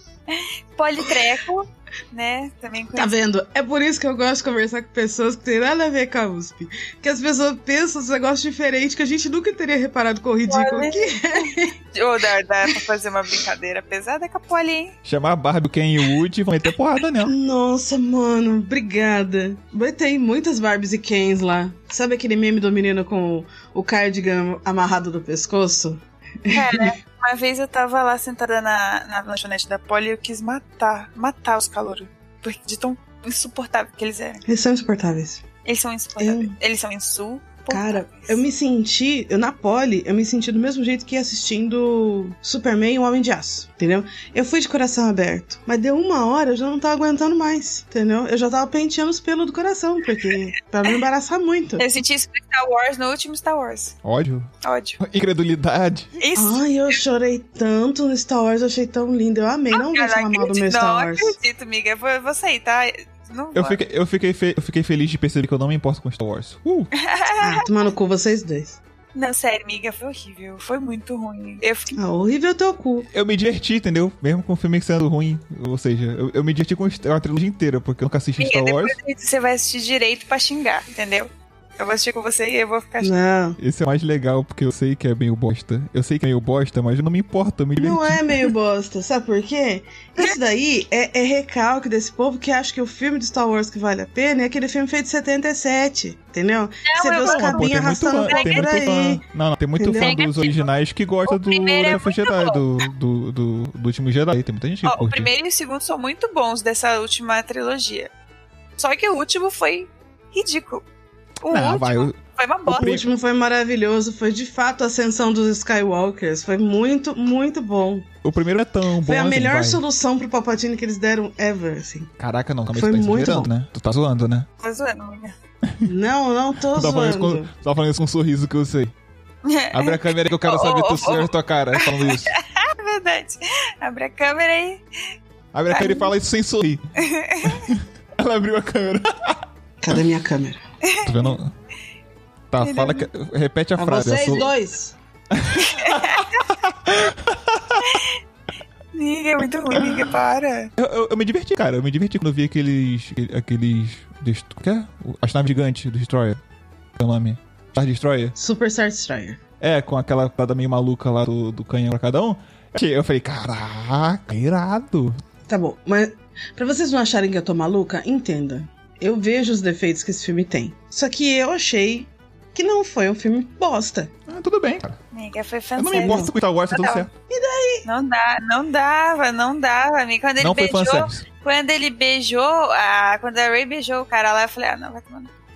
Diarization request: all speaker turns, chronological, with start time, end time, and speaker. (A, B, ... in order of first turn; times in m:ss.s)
0:00.3-0:03.2 A
0:01.0-0:01.3 B
0:03.0-0:11.8 B
0:10.5-0:14.9 A
0:15.0-0:17.3 C
0:17.2-0:26.9 B
0:26.5-0:34.4 A
0:34.4-0:35.4 B
0:35.6-0:38.4 A
0:36.2-0:36.5 B
0:37.7-0:51.8 B
0:51.8-0:53.9 A
0:54.0-0:56.1 C
0:54.6-0:55.0 A
0:56.2-0:56.7 A
0:56.3-1:01.4 B
0:59.7-1:03.8 A
1:03.5-1:06.9 C
1:07.0-1:07.7 A
1:07.4-1:08.8 B
1:09.1-1:12.0 A
1:12.0-1:13.1 B
1:13.1-1:19.0 C
1:18.4-1:23.1 A
1:23.0-1:23.6 B
1:23.6-1:28.2 C
1:27.8-1:39.2 B
1:36.9-1:38.8 A
1:37.2-1:45.3 C
1:39.8-1:40.2 B
1:40.0-1:40.7 A
1:41.3-1:42.6 A
1:44.8-1:48.1 A
1:48.8-1:50.8 A
1:51.4-1:53.0 A
1:51.5-1:53.0 C
1:52.7-1:58.1 B
1:58.2-1:59.8 C
1:59.0-2:02.1 B
2:02.2-2:04.5 C
2:02.7-2:03.5 B
2:04.6-2:05.3 A
2:05.8-2:07.5 B
2:06.7-2:08.9 C
2:09.4-2:14.8 A
2:09.7-2:12.3 C
2:15.5-2:16.8 C
2:15.7-2:16.1 A
2:17.0-2:17.7 A
2:17.4-2:20.0 C
2:19.8-2:20.6 B
2:20.8-2:21.4 A
2:21.0-2:21.5 C
2:22.5-2:24.5 C
2:22.6-2:23.0 A
2:23.8-2:24.9 B
2:25.3-2:28.0 C
2:25.6-2:26.4 A
2:27.8-2:28.2 A
2:28.9-2:30.7 A
2:29.7-2:30.1 C
2:30.8-2:36.4 C
2:37.0-2:38.3 C
2:38.4-2:39.4 B
2:39.6-2:45.2 C
2:45.5-2:54.1 B
2:54.3-2:55.0 C
2:55.1-2:57.1 A
2:55.8-2:57.1 C
2:56.0-2:56.3 B
2:57.3-2:57.9 B
2:57.8-3:05.3 A
3:00.4-3:01.2 C